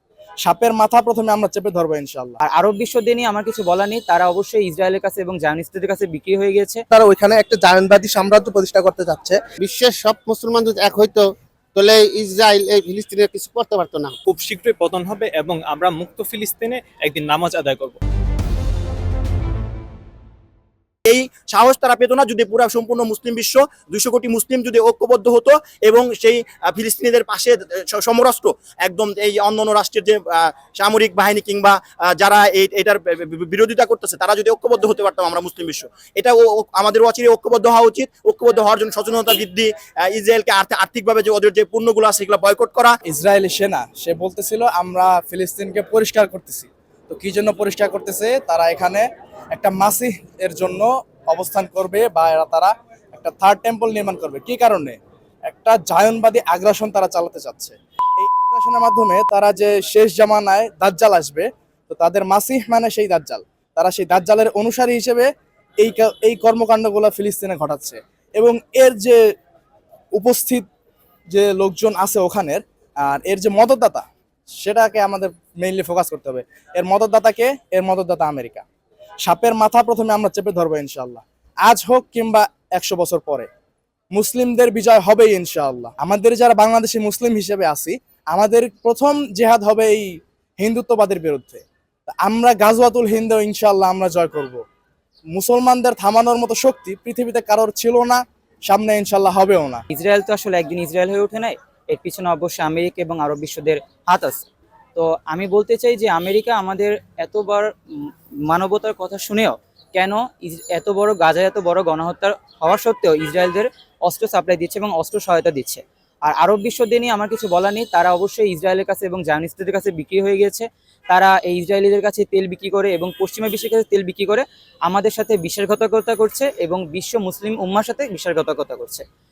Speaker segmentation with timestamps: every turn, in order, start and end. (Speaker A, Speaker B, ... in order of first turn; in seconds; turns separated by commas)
Speaker A: 0.4-2.4, Speaker B: 2.4-6.8, Speaker C: 6.9-9.4, Speaker D: 9.6-14.2, Speaker E: 14.3-18.0, Speaker F: 21.1-43.0, Speaker A: 43.1-55.0, Speaker A: 55.5-65.3, Speaker A: 65.8-69.2, Speaker A: 70.1-70.7, Speaker A: 71.3-78.6, Speaker A: 79.2-83.5, Speaker A: 84.1-94.6, Speaker A: 95.3-99.8, Speaker B: 99.9-129.0